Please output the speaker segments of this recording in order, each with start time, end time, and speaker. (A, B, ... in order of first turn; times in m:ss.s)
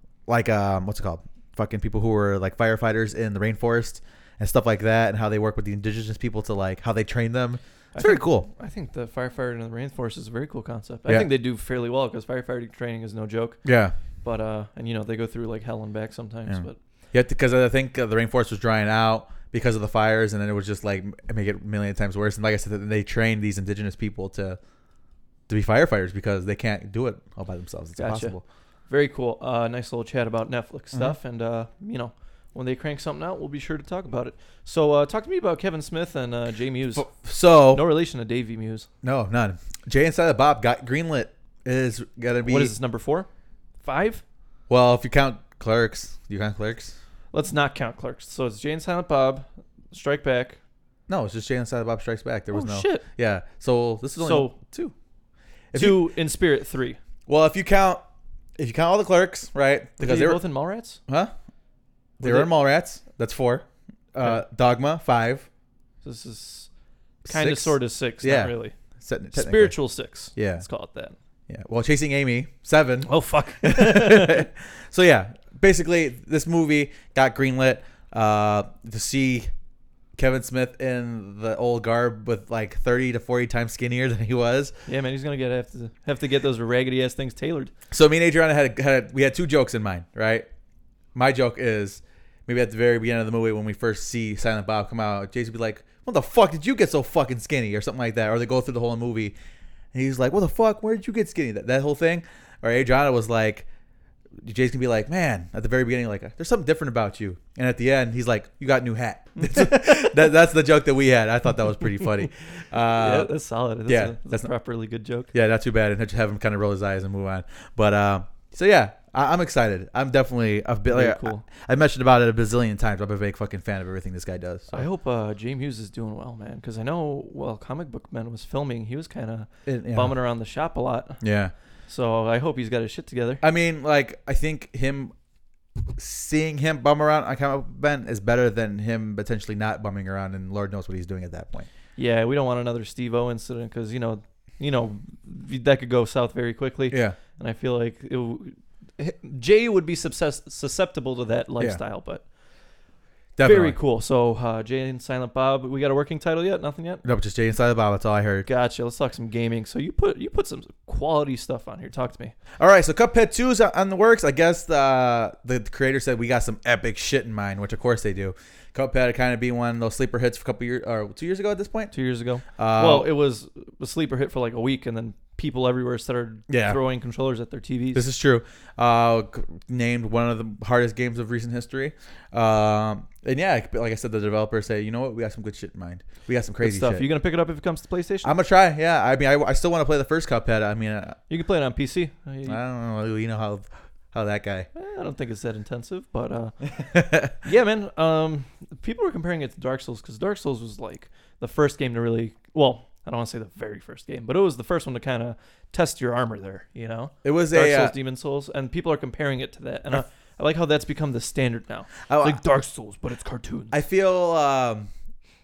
0:00.3-0:08.5 A
0:07.9-0:13.6 B
0:13.6-0:13.9 A
0:14.2-0:16.8 B
0:16.5-0:24.6 A
0:25.5-0:28.4 A
0:28.0-0:28.3 B
0:28.9-0:37.1 B
0:36.9-0:37.8 A
0:37.7-0:38.9 B
0:39.0-0:42.7 A
0:42.4-0:43.3 B
0:43.8-0:44.2 B
0:44.7-0:47.0 A
0:47.3-0:50.6 B
0:51.1-0:54.9 A
0:52.5-0:53.0 B
0:54.2-0:54.6 B
0:55.7-0:56.1 A
0:55.7-0:57.0 B
0:57.3-0:58.0 A
0:58.6-1:00.4 A
1:00.0-1:01.0 B
1:01.1-1:01.3 A
1:02.2-1:02.5 B
1:02.2-1:05.4 A
1:06.0-1:06.7 B
1:07.2-1:09.8 A
1:07.3-1:08.7 B
1:09.3-1:11.2 B
1:10.3-1:10.6 A
1:11.5-1:19.5 A
1:13.0-1:14.5 B
1:20.2-1:24.8 A
1:24.9-1:27.7 B
1:27.9-1:30.5 A
1:31.1-1:39.3 A
1:39.9-1:43.6 A
1:44.4-1:53.3 A
1:49.4-1:50.3 B
1:52.9-1:55.3 B
1:53.8-1:54.5 A
1:55.3-2:04.9 A
2:00.9-2:01.4 B
2:04.7-2:11.2 B
2:09.6-2:10.1 A
2:11.2-2:11.5 A
2:11.9-2:13.4 B
2:13.4-2:15.1 A
2:16.0-2:21.7 A
2:22.0-2:32.2 B
2:26.9-2:27.2 A
2:33.4-2:33.8 A
2:33.4-2:37.0 B
2:37.0-2:38.5 A
2:38.4-2:42.3 B
2:42.6-2:51.9 A
2:51.9-2:58.0 B
2:52.6-2:53.1 A
2:56.5-2:56.8 A
2:57.9-3:07.1 A
3:06.6-3:08.3 B
3:08.2-3:11.2 A
3:11.3-3:12.6 B
3:12.4-3:14.7 A
3:14.7-3:16.6 B
3:16.7-3:17.4 A
3:17.3-3:33.7 B
3:27.2-3:27.9 A
3:32.1-3:32.4 A
3:33.7-3:34.9 A